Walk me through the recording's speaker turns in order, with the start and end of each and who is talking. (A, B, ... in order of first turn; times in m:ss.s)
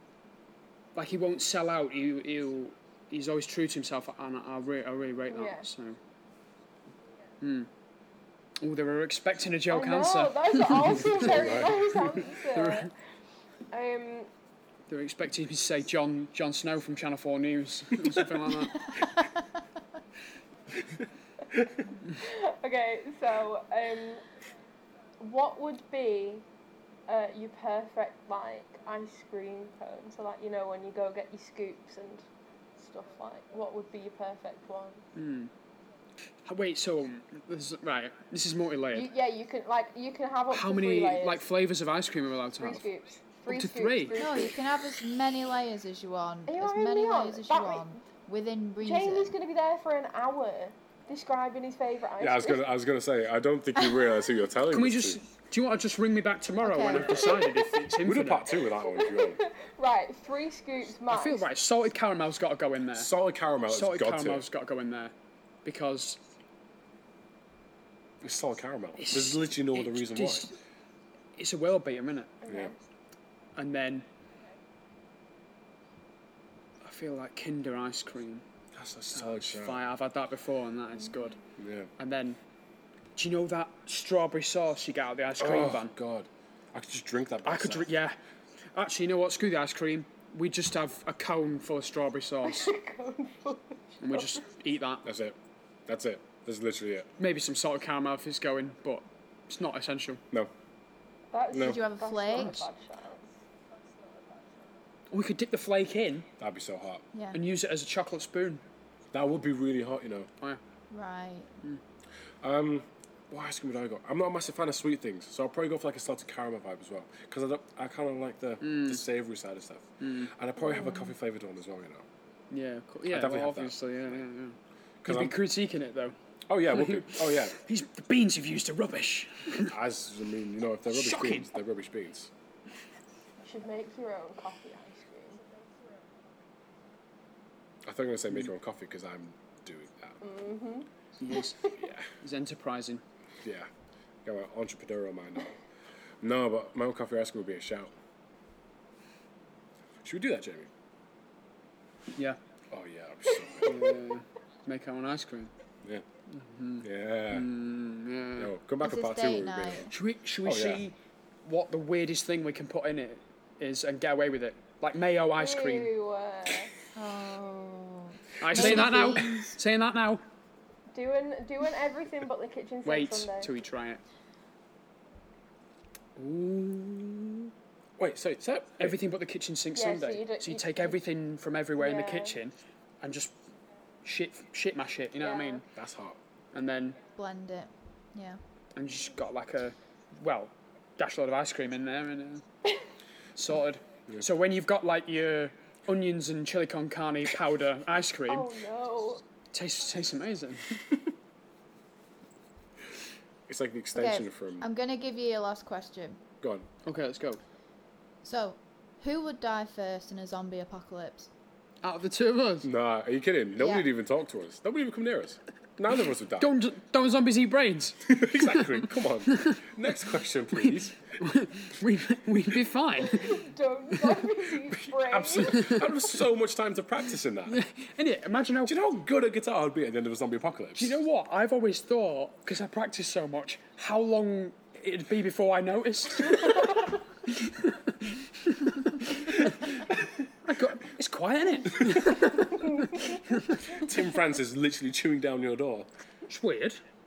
0:00.9-0:06.0 A
0:05.3-0:05.7 B
0:07.4-0:07.7 A
0:08.6-0:11.6 A
0:09.7-0:12.9 B
0:11.2-0:11.8 C
0:12.5-0:12.9 A
0:13.7-0:14.3 B
0:14.9-0:19.0 A
0:22.1-0:24.2 B
0:25.2-0:26.4 B
0:27.1-0:32.2 B
0:32.8-0:35.0 B
0:35.1-0:35.5 A
0:36.4-0:39.1 A
0:38.9-0:41.4 B
0:40.5-0:42.8 A
0:42.6-0:44.6 B
0:43.5-0:44.3 A
0:44.1-0:49.4 D
0:46.5-0:48.0 B
0:48.8-0:52.7 B
0:52.2-0:55.2 C
0:54.7-0:58.6 A
0:56.6-0:57.2 D
0:56.8-0:57.6 B
0:57.0-0:57.3 C
0:58.0-0:59.4 C
0:58.6-1:01.5 B
1:01.1-1:03.1 A
1:02.9-1:04.4 C
1:03.7-1:05.1 A
1:05.6-1:06.2 A
1:08.2-1:10.5 C
1:09.0-1:10.5 A
1:11.4-1:12.4 A
1:12.4-1:12.8 B
1:12.5-1:12.7 C
1:13.6-1:14.0 A
1:16.8-1:18.4 A
1:18.7-1:19.8 C
1:19.1-1:21.4 A
1:21.6-1:21.9 C
1:22.0-1:22.4 A
1:23.2-1:25.9 A
1:25.4-1:27.9 C
1:27.4-1:28.2 A
1:28.7-1:32.7 A
1:32.4-1:34.4 B
1:34.0-1:35.0 A
1:35.0-1:37.1 C
1:37.2-1:40.2 A
1:41.3-1:43.3 B
1:41.5-1:41.8 C
1:41.5-1:42.7 D
1:42.3-1:42.6 A
1:45.1-1:46.3 A
1:46.4-1:47.0 C
1:47.1-1:47.4 D
1:47.3-1:48.6 A
1:49.1-1:50.3 C
1:50.9-1:51.5 D
1:52.4-2:02.0 C
1:58.6-1:59.0 A
2:00.0-2:00.3 A
2:00.7-2:01.0 D
2:02.5-2:06.2 A
2:03.0-2:04.2 C
2:05.0-2:05.4 C
2:06.5-2:07.5 C
2:06.7-2:09.7 A
2:09.6-2:12.3 C
2:10.9-2:11.5 A
2:13.4-2:15.4 B
2:17.8-2:20.2 C
2:20.2-2:21.8 B
2:21.2-2:23.0 A
2:21.8-2:22.1 C
2:23.4-2:23.7 C
2:24.2-2:25.6 C
2:26.2-2:27.9 C
2:30.0-2:30.7 C
2:32.7-2:33.8 C
2:33.6-2:35.5 A
2:36.3-2:38.5 A
2:36.8-2:37.5 C
2:38.4-2:39.9 C
2:38.8-2:39.9 D
2:39.9-2:45.9 A
2:40.4-2:40.8 C
2:45.4-2:46.7 B
2:46.9-2:49.6 D
2:48.4-2:50.2 A
2:50.9-2:53.5 B
2:52.8-2:54.0 A
2:56.2-2:57.2 A
2:56.2-2:56.6 C
2:58.0-2:59.0 C
2:58.8-3:03.3 A
2:59.7-3:01.0 B
3:01.8-3:02.4 B
3:04.0-3:05.6 A
3:05.2-3:05.6 B
3:05.7-3:06.2 C
3:06.5-3:07.0 A
3:07.2-3:08.4 D
3:08.8-3:12.4 A
3:13.4-3:18.5 A
3:18.3-3:19.2 B
3:19.5-3:20.9 A
3:23.5-3:24.6 C
3:23.9-3:26.2 D
3:26.4-3:26.7 C
3:26.8-3:27.4 A
3:28.2-3:31.3 D
3:31.8-3:32.7 A
3:32.6-3:36.5 C
3:33.6-3:33.9 D
3:36.4-3:38.7 A
3:38.0-3:41.1 C
3:39.2-3:39.6 A
3:40.6-3:43.4 A
3:43.0-3:45.8 B
3:44.8-3:47.6 C
3:45.5-3:45.9 A
3:47.5-3:48.8 A
3:48.6-3:51.0 C
3:50.8-4:03.9 A
4:02.9-4:03.2 B
4:03.7-4:05.9 C
4:06.3-4:06.8 A